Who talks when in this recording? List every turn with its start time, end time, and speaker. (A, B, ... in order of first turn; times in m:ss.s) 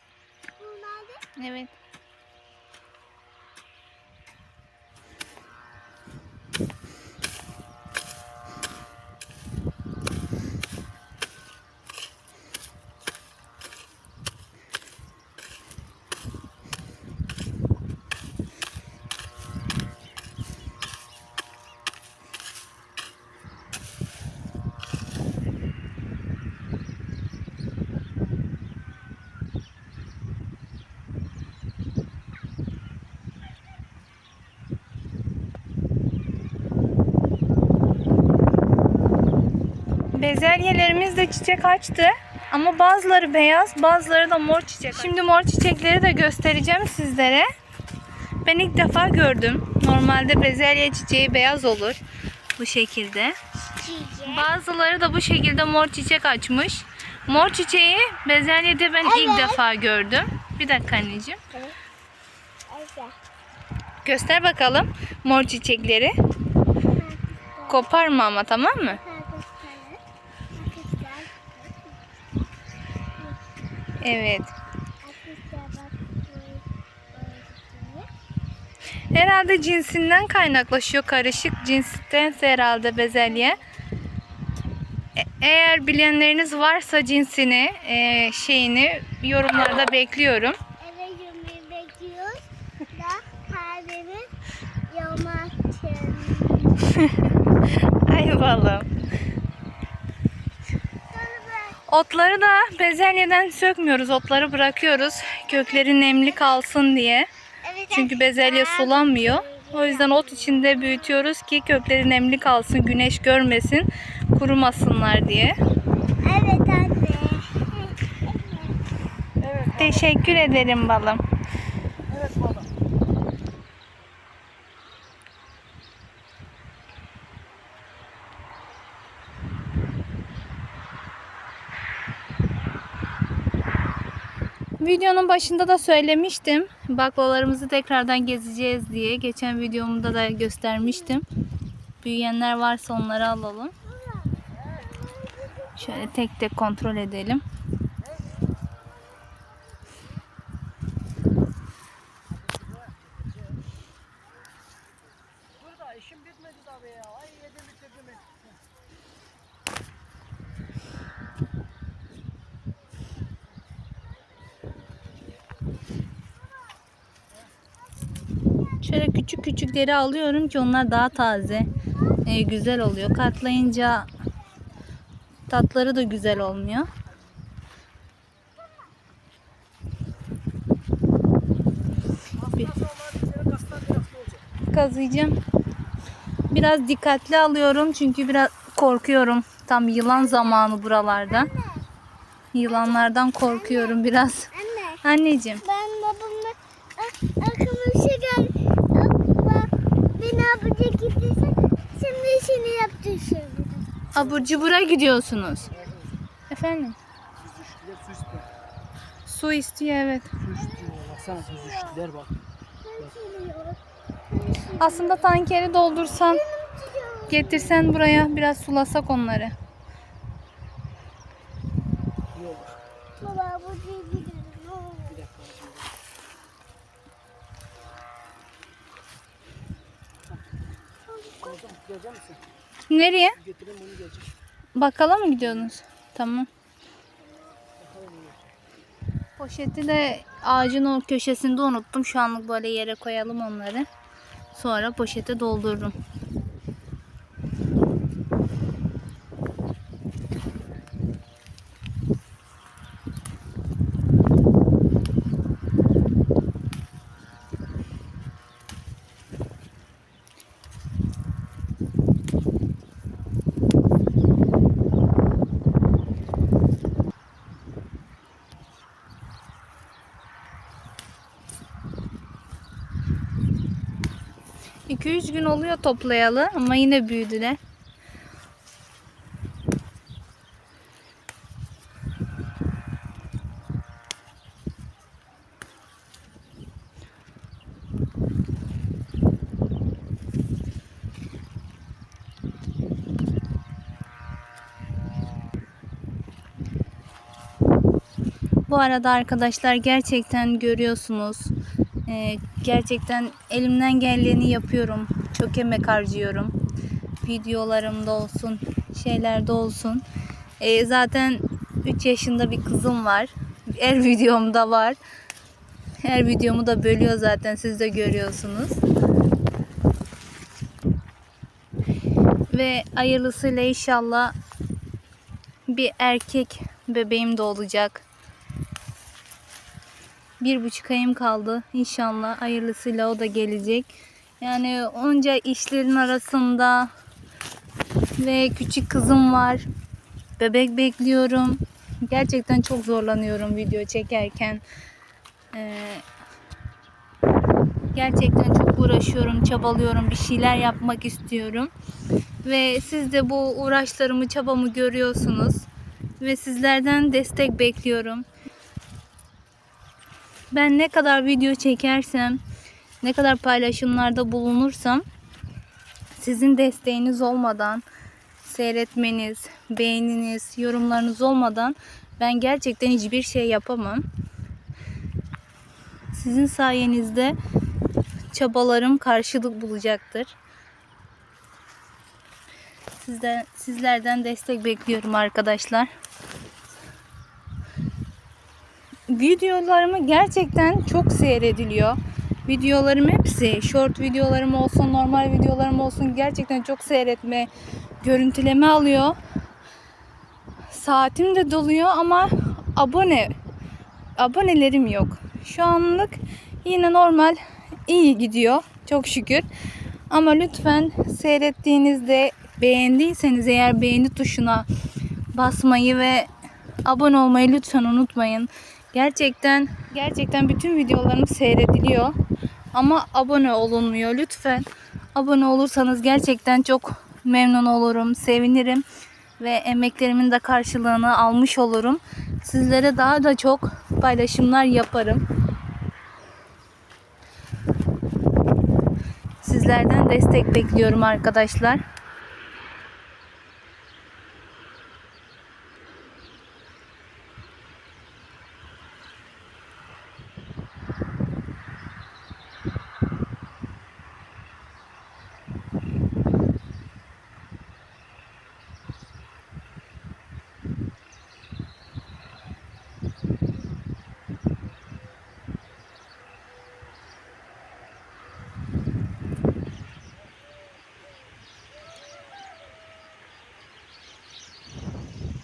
0:00.6-0:01.2 A
0:01.4-0:01.8 B
0:40.1-0:47.5 B
0:48.4-0:52.0 B
0:52.6-0:53.4 B
0:53.8-0:54.5 A
0:54.2-1:01.4 B
0:59.0-0:59.6 A
1:02.7-1:03.2 A
1:04.0-1:06.1 B
1:06.8-1:07.9 A
1:07.7-1:09.0 B
1:08.8-1:10.0 A
1:10.5-1:12.4 A
1:14.0-1:14.5 B
1:15.0-1:18.1 A
1:19.1-1:23.6 B
1:25.2-1:30.6 B
1:30.8-1:34.3 A
1:34.9-1:36.8 A
1:36.8-1:38.9 B
1:41.1-1:41.8 A
1:41.9-1:47.3 B
1:45.5-1:46.2 A
1:47.6-1:50.9 A
1:47.9-1:55.6 B
1:56.2-1:58.8 A
1:59.4-2:00.1 C
1:59.8-2:01.2 B
2:02.1-2:02.7 C
2:14.8-2:21.2 B
2:22.0-2:23.7 B
2:23.8-2:26.1 A
2:25.8-2:27.4 B
2:32.3-2:33.6 C
2:35.6-2:38.6 C
2:48.8-2:54.1 B
2:55.5-2:56.9 B
3:02.3-3:04.4 C
3:04.7-3:05.4 B
3:06.5-3:11.5 B
3:11.0-3:11.9 A
3:12.5-3:14.5 B
3:12.7-3:14.0 A
3:14.5-3:15.0 A
3:15.0-3:15.6 B
3:15.6-3:24.1 A
3:24.1-3:25.8 B
3:25.8-3:26.0 C
3:26.5-3:27.0 B
3:27.4-3:28.5 C
3:29.2-3:30.3 B
3:30.4-3:32.4 C
3:30.6-3:32.0 A
3:32.8-3:35.3 A
3:34.8-3:36.4 B
3:36.1-3:37.8 A
3:37.3-3:39.5 B
3:42.3-3:42.8 C
3:43.2-3:45.2 A
3:45.1-3:45.9 C
3:51.0-3:51.6 A
3:51.4-3:52.4 C
3:52.9-3:53.4 B
3:53.4-3:54.4 C
3:54.8-3:56.5 B
3:57.3-3:57.6 A
3:57.8-3:58.4 C
3:59.4-4:03.9 B
4:04.5-4:06.0 B
4:34.9-4:37.6 B
4:58.7-5:01.5 B
5:02.1-5:06.5 B
5:07.2-5:10.0 B
5:10.6-5:15.0 B
5:16.0-5:18.8 B
5:22.5-5:24.3 B
5:25.7-5:28.0 B
5:30.4-5:36.9 B
5:38.2-5:39.6 B
5:40.4-5:44.6 B
5:45.5-5:46.0 B
5:47.9-5:51.7 B
5:52.4-5:55.7 B
5:56.2-5:58.2 B
6:00.5-6:02.4 B
6:03.0-6:05.0 B
6:06.2-6:07.8 B
6:08.4-6:14.0 B
6:16.1-6:17.4 B
6:18.3-6:20.4 B
6:23.0-6:25.9 B
6:29.1-6:37.5 B
6:38.0-6:39.2 B
6:40.7-6:43.3 B
6:44.2-6:49.5 B
6:50.1-6:54.7 B
6:55.3-6:56.3 B
6:56.8-7:02.1 B
7:02.7-7:08.8 B
7:09.4-7:15.2 B
7:19.4-7:21.8 B